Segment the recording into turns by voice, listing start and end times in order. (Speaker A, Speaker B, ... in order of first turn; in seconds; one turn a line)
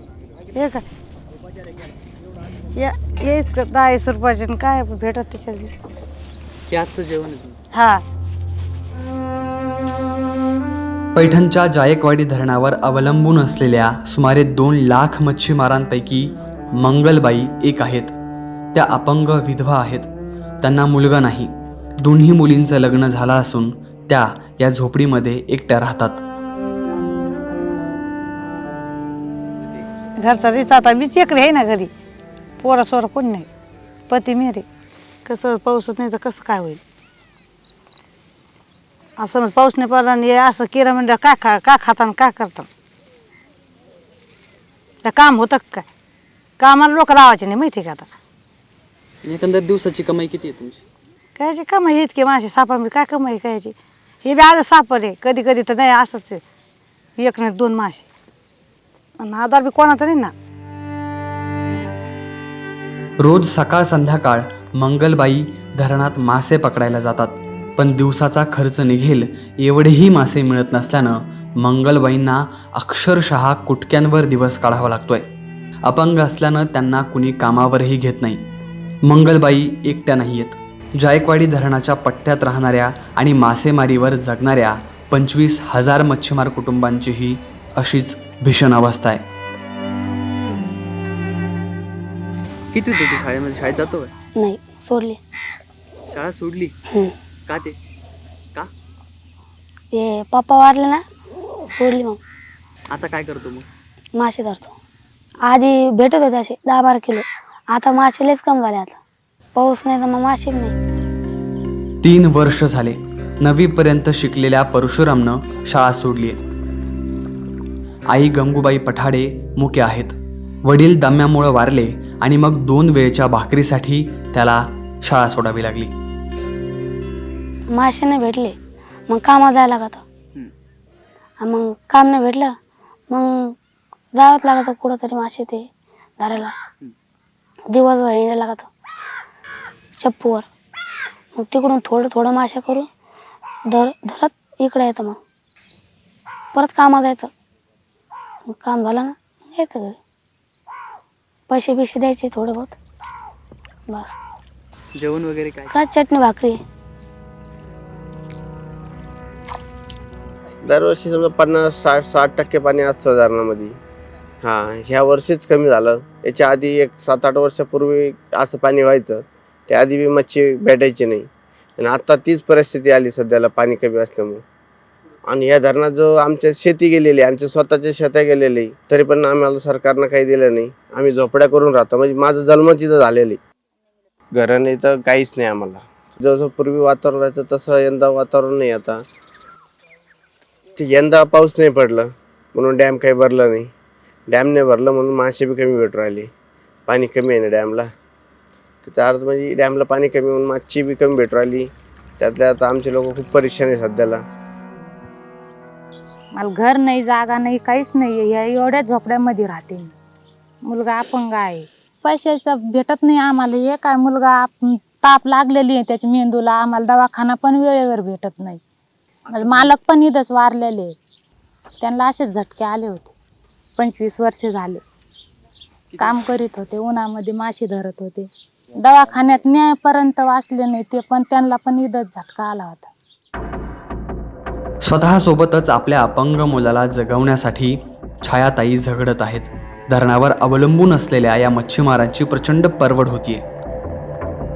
Speaker A: 0.5-0.8
Speaker A: 2.8-5.7
Speaker B: 6.7-7.6
Speaker A: 7.7-8.0
Speaker C: 11.1-18.1
Speaker C: 18.7-20.1
Speaker C: 20.6-26.2
Speaker A: 30.2-31.9
Speaker A: 32.6-33.5
Speaker A: 34.1-34.6
Speaker A: 35.2-36.8
Speaker A: 39.2-42.7
Speaker A: 45.0-45.9
Speaker A: 46.6-48.1
Speaker B: 49.2-50.8
Speaker A: 51.4-56.4
Speaker A: 57.2-58.0
Speaker A: 59.2-60.3
Speaker C: 63.2-75.2
Speaker C: 75.9-78.4
Speaker C: 79.1-89.2
Speaker B: 92.7-94.1
Speaker D: 94.4-95.2
Speaker B: 96.1-96.7
Speaker D: 96.9-97.1
Speaker B: 97.5-97.8
Speaker D: 99.9-101.0
Speaker D: 101.7-102.2
Speaker B: 102.9-103.7
Speaker D: 104.2-104.7
Speaker D: 105.5-109.0
Speaker D: 109.5-110.7
Speaker C: 112.0-116.4
Speaker C: 118.1-125.9
Speaker D: 127.7-128.5
Speaker D: 129.1-130.0
Speaker D: 131.4-132.5
Speaker D: 133.1-133.5
Speaker D: 134.2-135.6
Speaker D: 136.2-136.5
Speaker D: 137.7-138.7
Speaker D: 140.0-140.5
Speaker D: 141.3-142.9
Speaker D: 143.7-145.2
Speaker D: 146.5-147.3
Speaker D: 148.5-150.0
Speaker D: 151.5-152.8
Speaker D: 153.9-154.2
Speaker B: 154.9-155.7
Speaker D: 155.7-156.6
Speaker E: 160.6-163.8
Speaker E: 164.4-174.4
Speaker E: 175.3-183.4
Speaker E: 184.3-189.0
Speaker E: 190.8-193.7
Speaker E: 194.3-196.3
Speaker E: 196.9-197.9
Speaker E: 198.8-204.2
Speaker F: 206.3-209.9
Speaker F: 210.6-218.6
Speaker F: 219.3-220.9
Speaker F: 221.8-223.1
Speaker F: 223.8-224.8
Speaker F: 225.9-232.9
Speaker C: 234.8-243.4